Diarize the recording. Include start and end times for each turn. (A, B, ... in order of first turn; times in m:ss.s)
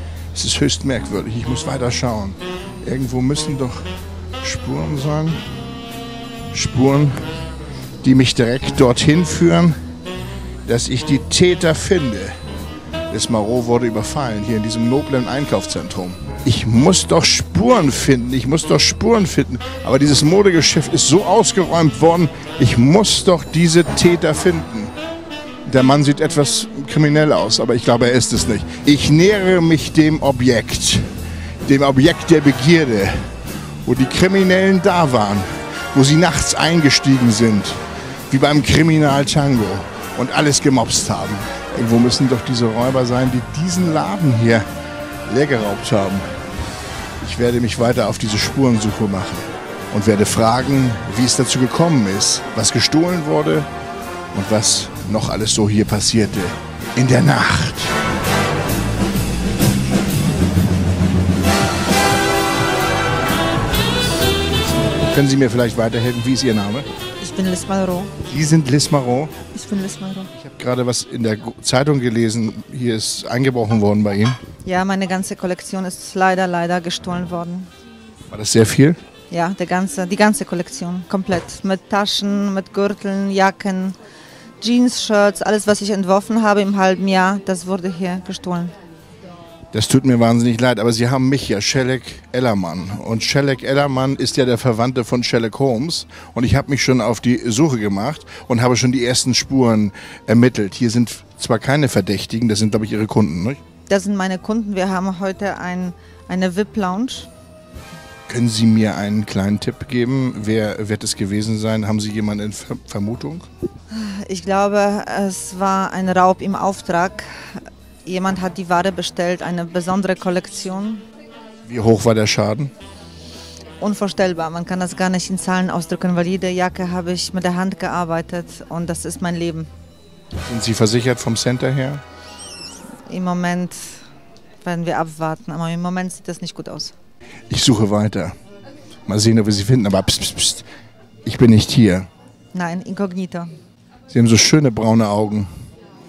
0:00.3-0:03.9 A
0:04.4-0:05.4 A
0:06.5-0:07.2 A
0:08.0-0:09.8 A
0:10.6-0:12.4 A
0:13.1-0:24.9 A
0:25.6-0:31.1 A
0:31.6-0:44.7 A
0:45.2-0:46.4 A
0:47.2-0:53.7 A
0:54.3-0:58.0 A
1:05.0-1:06.9 A
1:07.2-1:08.2 B
1:08.2-1:09.3 A
1:09.5-1:10.3 B
1:10.3-1:14.4 A
1:14.6-1:17.7 B
1:18.3-1:19.0 A
1:19.3-1:24.0 B
1:24.6-1:28.7 B
1:29.7-1:43.6 A
1:43.9-1:47.3 B
1:48.3-1:53.5 A
1:53.9-2:01.0 B
2:01.6-2:02.7 A
2:03.8-2:09.7 B
2:10.4-2:12.0 A
2:13.1-2:14.0 B
2:14.6-2:16.9 B
2:17.5-2:18.3 A
2:19.1-2:20.7 A
2:21.2-2:22.1 A
2:22.5-2:23.5 B
2:24.1-2:25.5 A